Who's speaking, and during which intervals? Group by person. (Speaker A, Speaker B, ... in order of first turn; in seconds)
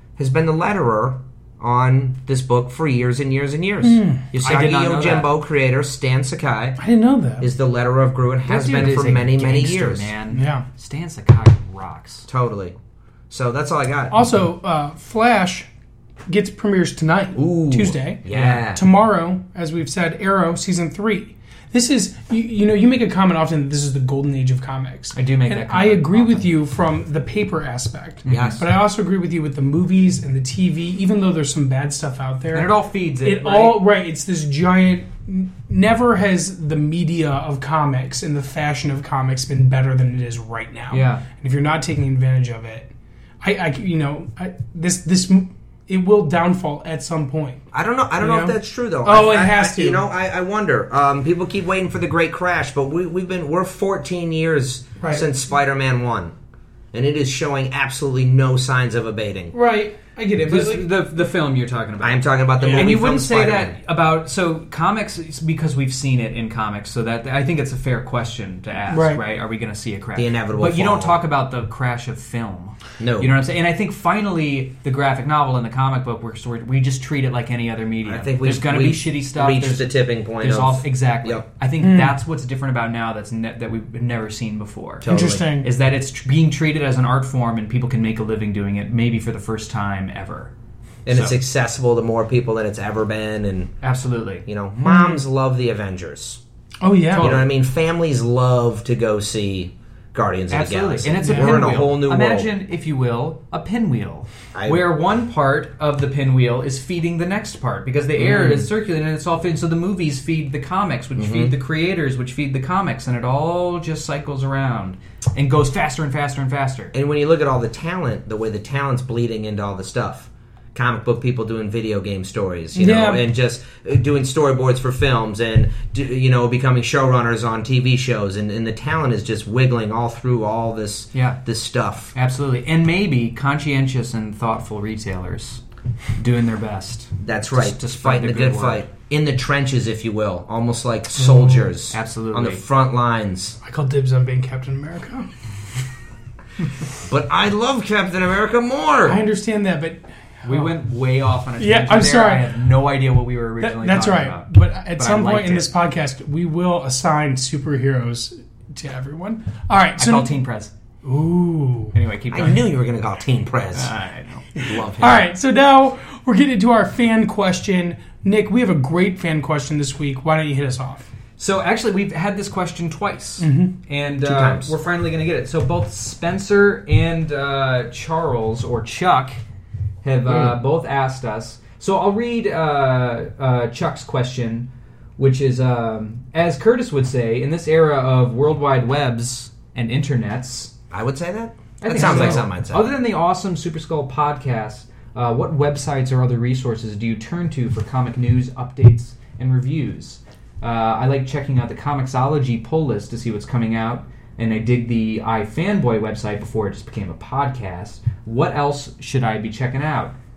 Speaker A: 0.2-6.8, 7.4-10.1, 12.3-12.8, 13.3-14.2, 17.4-18.8, 28.3-28.6, 47.7-56.3, 56.9-59.5, 62.0-63.8, 70.2-71.2, 73.0-73.3, 78.0-81.4, 85.0-85.5, 91.1-93.7, 94.5-96.4, 97.2-102.5, 104.5-104.9, 108.2-108.7, 111.2-111.5, 116.9-132.1, 137.2-143.6, 147.0-149.2, 162.3-163.9, 164.6-165.3, 174.2-174.8, 180.3-180.6, 190.9-192.9
Speaker B: 3.8-4.2, 6.8-7.5, 10.3-10.6, 14.1-15.7, 16.3-32.7, 33.2-42.9, 43.4-47.6, 48.2-50.0, 55.0-55.3, 59.5-60.9, 62.6-62.9, 68.9-69.2, 81.8-82.2, 85.1-85.7, 94.8-95.2, 96.8-97.3, 101.2-101.7, 122.8-123.2, 141.2-141.8, 143.6-145.3, 149.1-150.7, 151.6-152.5, 153.6-160.3, 161.0-161.9, 164.6-171.1, 173.4-173.8, 192.0-192.4
Speaker C: 4.3-5.3, 8.5-12.3, 18.3-18.6, 25.1-26.5, 28.3-28.6, 32.5-33.8, 40.9-41.2, 60.5-90.5, 91.1-91.3, 93.8-94.5, 97.1-97.5, 100.5-116.9, 131.1-131.4, 132.2-135.6, 136.2-138.9, 141.9-142.6, 150.4-155.7, 160.0-160.7, 161.9-162.6, 163.8-164.5, 171.4-179.4, 180.0-190.7, 191.8-210.2